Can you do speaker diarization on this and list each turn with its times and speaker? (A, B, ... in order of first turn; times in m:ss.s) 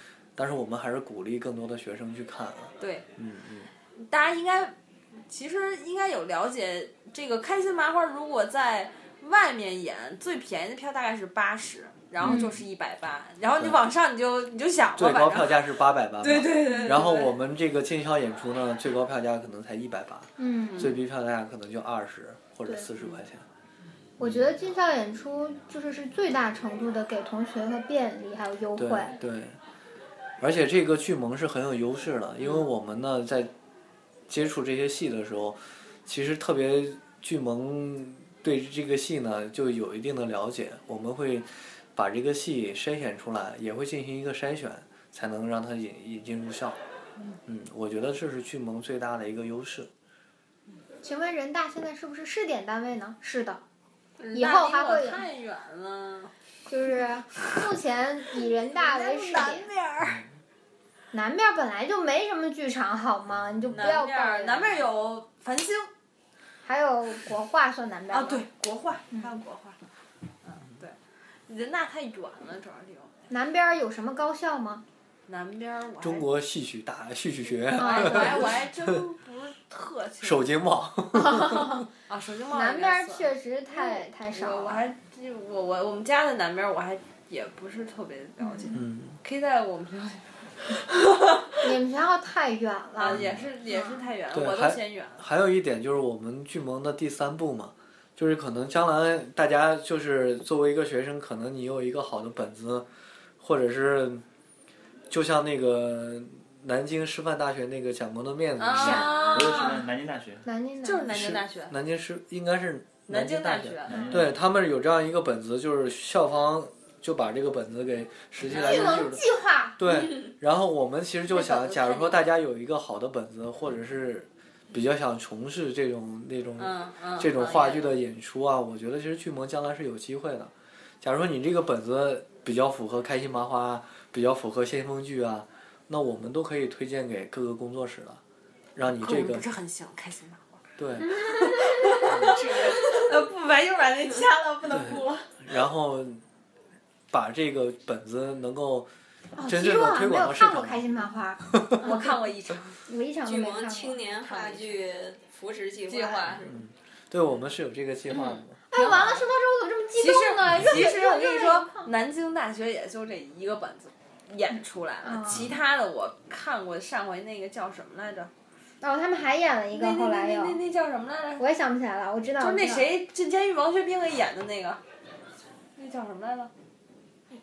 0:00.4-0:03.7 A
0:02.8-0:03.1 B
0:04.0-0:04.8 B
0:05.3-0:15.7 B
0:12.2-0:12.6 C
0:13.6-0:13.8 A
0:15.0-0:23.4 A
0:16.2-0:17.3 B
0:20.4-0:20.9 C
0:24.2-0:29.2 C
0:24.2-0:24.5 A
0:28.8-0:29.6 A
0:30.4-0:33.5 A
0:34.3-0:46.8 A
0:47.5-0:49.9 A
0:51.0-0:53.6 C
0:54.2-0:56.3 B
0:54.3-0:55.3 C
0:56.7-0:59.7 C
0:58.7-1:00.2 B
1:01.1-1:04.8 C
1:03.7-1:05.9 B
1:06.6-1:08.4 C
1:08.1-1:09.8 B
1:10.4-1:13.1 B
1:13.3-1:14.8 C
1:15.3-1:16.3 B
1:16.0-1:18.9 A
1:17.7-1:20.5 B
1:17.8-1:18.5 C
1:20.2-1:21.8 A
1:21.2-1:21.9 C
1:22.1-1:30.7 B
1:22.5-1:25.0 C
1:28.4-1:28.8 C
1:28.7-1:29.2 A
1:31.6-1:34.1 C
1:33.0-1:35.3 B
1:34.3-1:42.9 A
1:43.4-1:44.2 A
1:45.1-1:49.1 A
1:48.6-1:49.8 B
1:48.8-1:50.4 D
1:48.9-1:49.7 C
1:50.4-1:51.2 C
1:50.8-1:51.8 B
1:51.1-1:59.2 A
1:53.1-1:54.3 B
1:53.9-1:54.4 D
1:58.5-1:59.0 B
1:58.5-1:59.8 C
1:59.8-2:18.2 A
2:01.3-2:02.3 B
2:06.6-2:08.0 B
2:18.8-2:19.5 A
2:19.0-2:20.6 B
2:20.8-2:21.1 A
2:21.8-2:25.4 B
2:24.7-2:26.2 A
2:27.1-2:28.9 A
2:29.4-2:32.2 C
2:29.4-2:30.9 A
2:31.8-2:32.8 B
2:32.9-2:34.0 C
2:33.2-2:36.5 E
2:34.2-2:34.8 B
2:35.9-2:36.4 B
2:36.4-2:38.6 A
2:38.7-2:41.9 C
2:38.7-2:39.3 B
2:40.0-2:48.3 B
2:45.0-2:45.5 C
2:48.8-2:50.6 C
2:49.7-2:51.5 B
2:51.4-2:52.9 C
2:52.4-2:54.8 B
2:55.8-2:56.5 B